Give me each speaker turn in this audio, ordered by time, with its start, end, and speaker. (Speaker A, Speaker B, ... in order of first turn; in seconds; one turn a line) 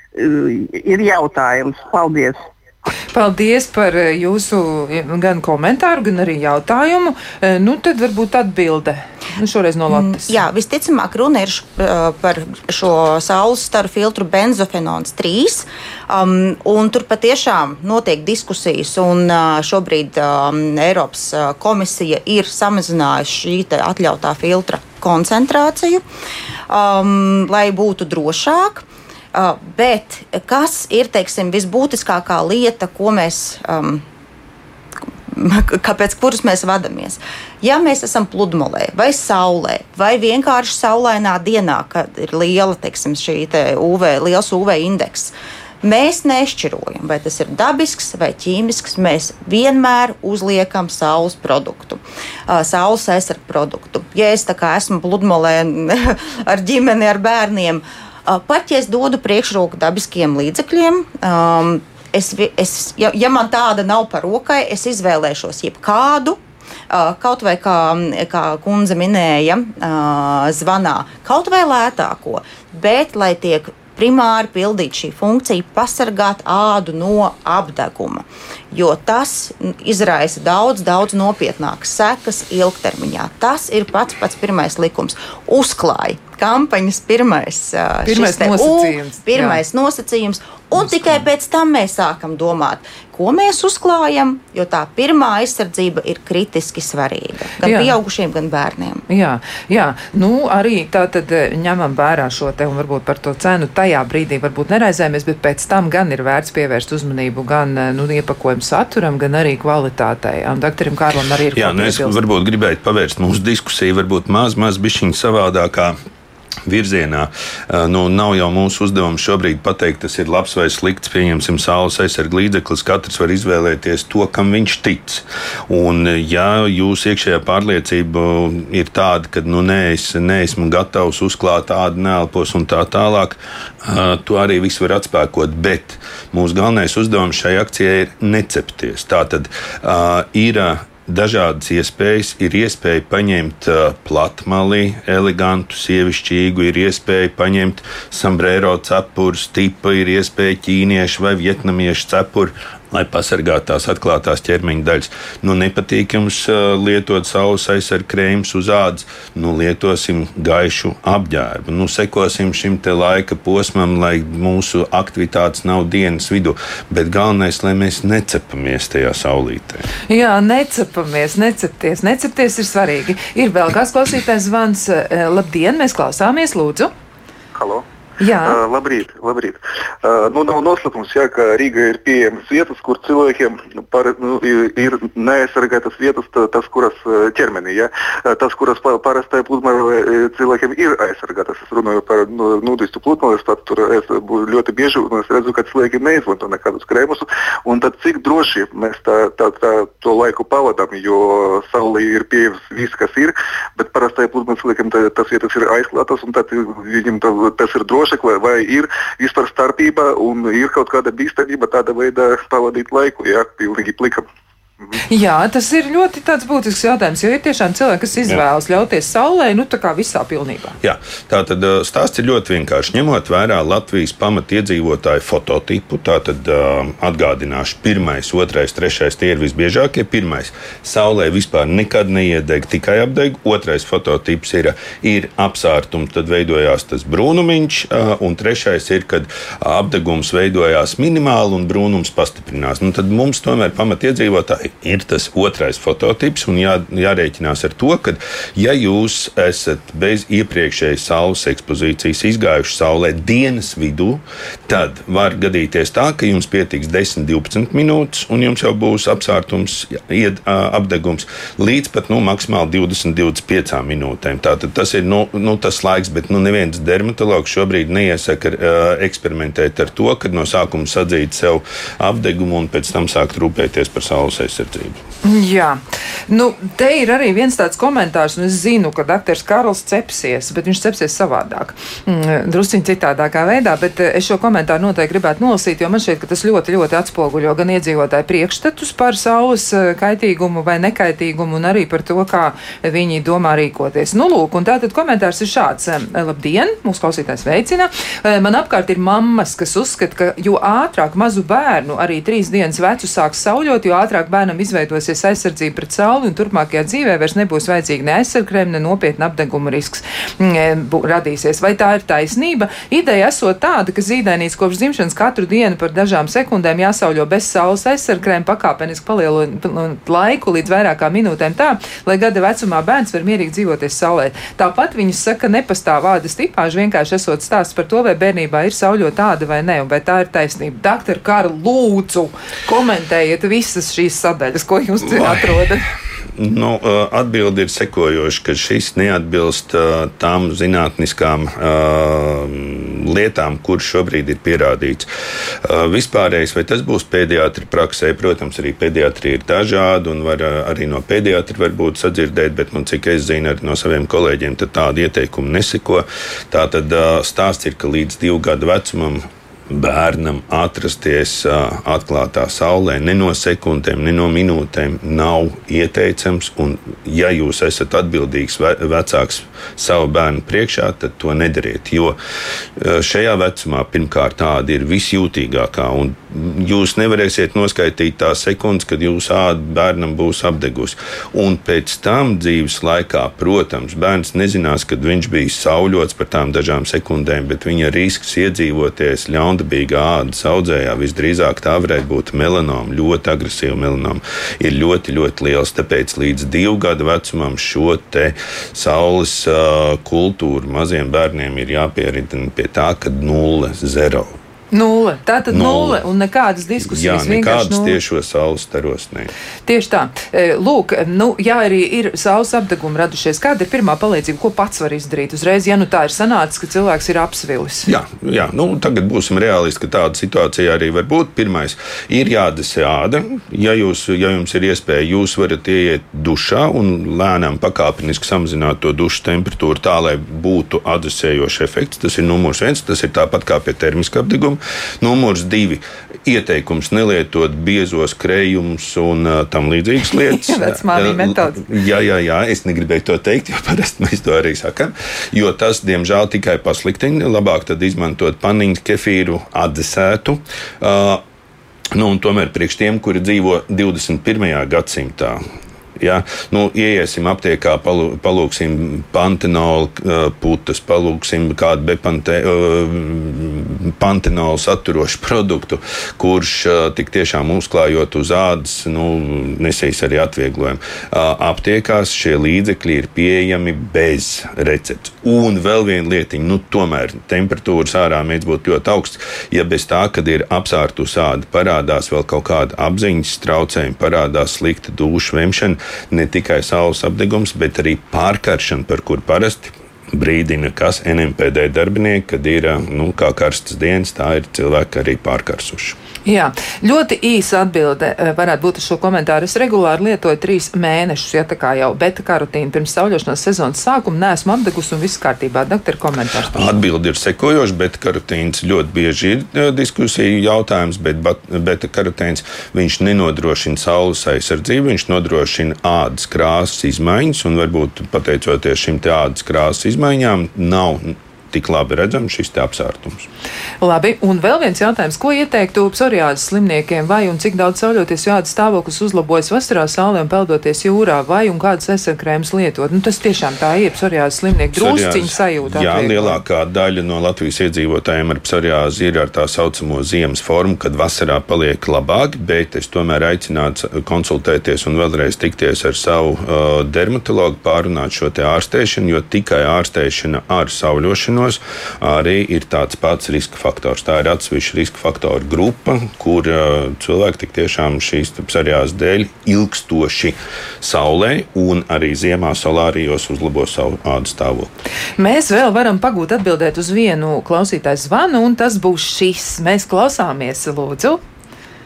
Speaker A: 0.1-2.4
Speaker B: 3.1-10.4
Speaker C: 9.9-26.0
Speaker C: 26.7-34.0
Speaker C: 35.3-66.4
Speaker C: 66.9-99.0
Speaker B: 88.0-89.6
Speaker B: 97.6-98.0
Speaker B: 99.1-112.2
Speaker D: 111.5-116.0
Speaker D: 116.7-169.9
Speaker B: 170.1-176.9
Speaker E: 177.5-177.8
Speaker B: 178.2-178.6
Speaker E: 178.4-214.2
Speaker B: 215.1-220.8
Speaker D: 220.8-275.0
Speaker B: 275.2-335.8
Speaker D: 335.1-335.5
Speaker D: 336.4-345.1
Speaker D: 345.6-372.2
Speaker D: 372.8-404.4
Speaker B: 404.7-408.0
Speaker D: 405.5-406.0
Speaker D: 406.8-409.3
Speaker B: 409.6-417.9
Speaker D: 417.9-451.2
Speaker B: 440.3-441.7
Speaker D: 451.9-455.4
Speaker D: 456.0-496.0
Speaker B: 496.2-506.7
Speaker D: 506.5-523.3
Speaker B: 523.8-536.4
Speaker D: 534.7-564.7
Speaker B: 565.2-571.2